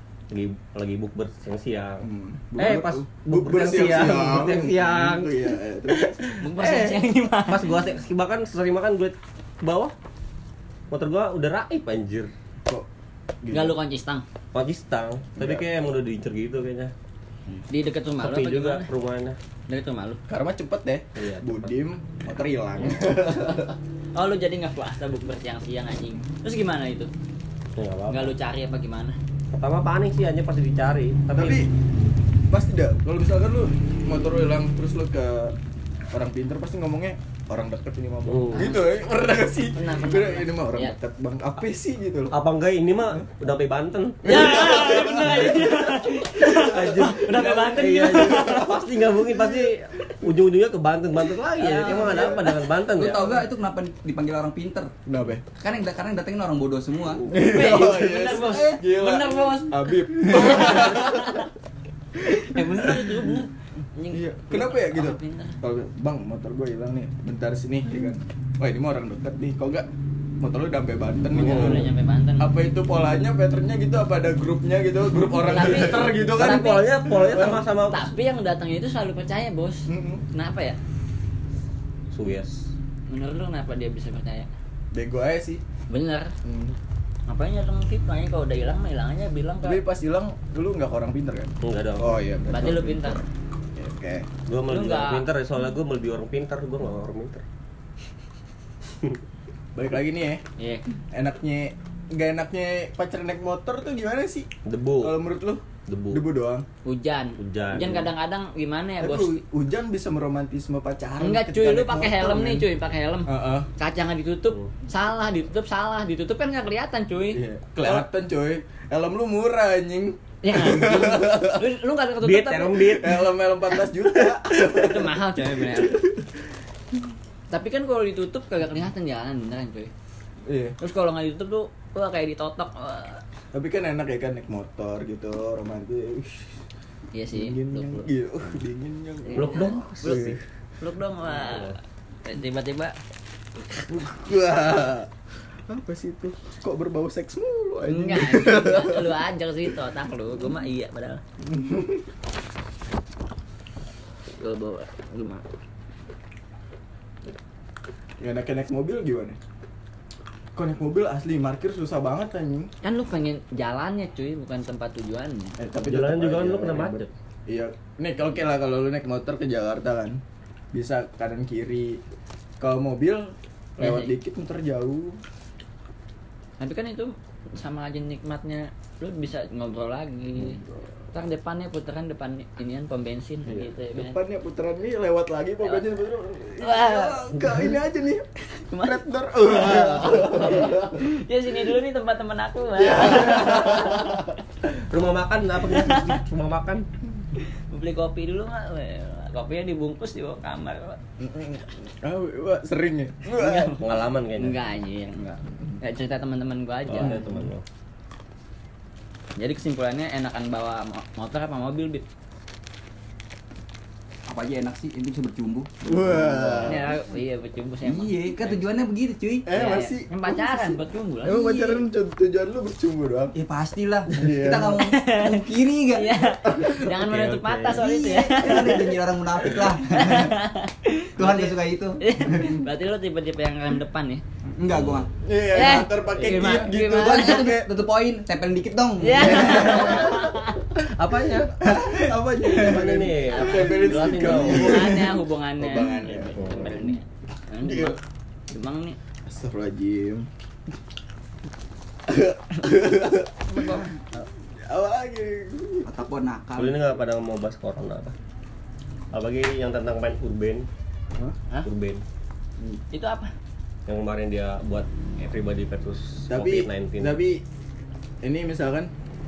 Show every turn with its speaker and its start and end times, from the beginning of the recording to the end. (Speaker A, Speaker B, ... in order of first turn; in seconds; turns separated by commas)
Speaker A: 0.3-9.9, Speaker B: 2.0-6.3, Speaker C: 6.4-7.7, Speaker A: 10.9-12.3, Speaker B: 13.4-13.8, Speaker C: 13.5-14.2, Speaker A: 14.5-16.9, Speaker B: 15.4-15.6, Speaker C: 17.7-18.9, Speaker A: 18.2-19.4, Speaker C: 19.7-20.2, Speaker B: 20.3-23.8, Speaker A: 21.1-21.7, Speaker C: 24.1-27.1, Speaker A: 27.8-28.3, Speaker C: 28.1-29.2, Speaker A: 29.5-31.6, Speaker B: 31.3-31.7, Speaker B: 32.5-35.5, Speaker B: 36.1-42.4, Speaker A: 38.3-38.7, Speaker C: 38.5-38.8, Speaker C: 39.7-40.9, Speaker A: 42.3-44.9, Speaker C: 44.2-48.7, Speaker B: 44.2-50.3, Speaker A: 46.6-53.4, Speaker C: 51.5-52.5, Speaker B: 51.8-52.7, Speaker D: 52.9-54.9, Speaker B: 55.0-55.4, Speaker D: 55.6-57.2, Speaker B: 57.2-61.5, Speaker C: 57.3-61.5, Speaker C: 62.2-65.6, Speaker B: 62.3-63.4, Speaker B: 64.1-69.9, Speaker B: 70.4-77.6, Speaker C: 71.3-72.5, Speaker A: 71.4-71.8, Speaker C: 75.5-76.9, Speaker A: 75.5-78.1, Speaker C: 77.9-80.8, Speaker B: 79.9-80.2, Speaker A: 82.1-82.7, Speaker C: 83.1-84.5, Speaker B: 84.9-85.6, Speaker C: 85.9-86.3, Speaker B: 86.4-86.8, Speaker C: 87.3-89.8, Speaker B: 89.6-94.3, Speaker A: 91.6-92.2, Speaker C: 92.5-93.2, Speaker A: 94.5-97.4, Speaker C: 94.7-95.2, Speaker B: 99.7-100.4, Speaker C: 100.6-100.8, Speaker B: 101.1-104.5, Speaker A: 104.6-105.2, Speaker B: 105.0-106.7, Speaker A: 105.9-106.2, Speaker C: 106.8-109.4, Speaker A: 107.4-108.0, Speaker B: 107.7-108.1, Speaker B: 109.0-112.7, Speaker C: 111.2-118.0, Speaker B: 113.2-113.7, Speaker B: 117.3-121.7, Speaker C: 120.4-123.0, Speaker A: 122.2-123.2, Speaker B: 122.8-126.3, Speaker C: 124.7-126.0, Speaker C: 127.5-129.9, Speaker B: 130.4-130.8, Speaker C: 130.8-133.2, Speaker B: 133.5-136.6, Speaker C: 137.1-138.0, Speaker B: 137.3-140.4, Speaker C: 139.3-143.0, Speaker A: 139.3-140.3, Speaker A: 141.3-141.7, Speaker B: 143.8-145.1, Speaker B: 145.7-149.2, Speaker C: 147.8-151.2, Speaker B: 151.4-152.1, Speaker C: 154.4-155.4, Speaker B: 158.2-159.4, Speaker B: 160.5-162.7, Speaker C: 162.8-165.6, Speaker B: 165.6-170.2, Speaker A: 165.8-167.1, Speaker B: 170.7-172.0, Speaker B: 172.6-175.2, Speaker C: 173.8-174.1, Speaker C: 176.6-180.6, Speaker B: 180.4-180.8, Speaker C: 181.1-184.2, Speaker B: 183.4-188.3, Speaker C: 186.6-187.6, Speaker C: 188.5-194.3, Speaker B: 188.8-191.0, Speaker B: 192.8-194.3, Speaker A: 194.6-196.8, Speaker C: 195.7-196.2, Speaker C: 197.4-201.0, Speaker B: 201.2-203.7, Speaker C: 203.2-207.2, Speaker A: 203.8-204.6, Speaker A: 206.9-207.6, Speaker B: 207.0-207.5, Speaker C: 209.4-212.0, Speaker D: 214.3-216.8, Speaker B: 215.8-216.9, Speaker C: 216.6-218.7, Speaker D: 217.8-219.5, Speaker B: 219.4-223.3, Speaker C: 219.5-221.4, Speaker D: 221.2-221.8, Speaker D: 223.3-226.2, Speaker B: 224.1-224.9, Speaker C: 224.8-229.0, Speaker B: 226.4-227.0, Speaker A: 227.0-227.8, Speaker D: 227.8-230.4, Speaker B: 228.4-228.9, Speaker C: 229.9-234.2, Speaker D: 231.2-232.0, Speaker B: 232.3-232.6, Speaker D: 234.6-235.1, Speaker A: 234.7-235.0, Speaker B: 235.2-237.7, Speaker C: 235.5-237.5, Speaker D: 236.4-240.1, Speaker C: 239.0-240.6, Speaker B: 239.3-240.5, Speaker A: 240.9-241.7, Speaker B: 241.6-247.0, Speaker A: 242.4-245.0, Speaker C: 243.3-248.0, Speaker A: 246.4-246.6, Speaker B: 247.6-248.0, Speaker C: 248.5-249.0, Speaker B: 249.2-250.3, Speaker B: 252.1-253.8, Speaker C: 253.5-254.2, Speaker B: 254.6-255.9, Speaker D: 255.8-256.8, Speaker A: 256.6-258.1, Speaker A: 259.1-260.6, Speaker A: 261.6-262.0, Speaker C: 262.9-263.3, Speaker A: 263.9-267.2, Speaker B: 266.3-267.4, Speaker B: 268.2-268.9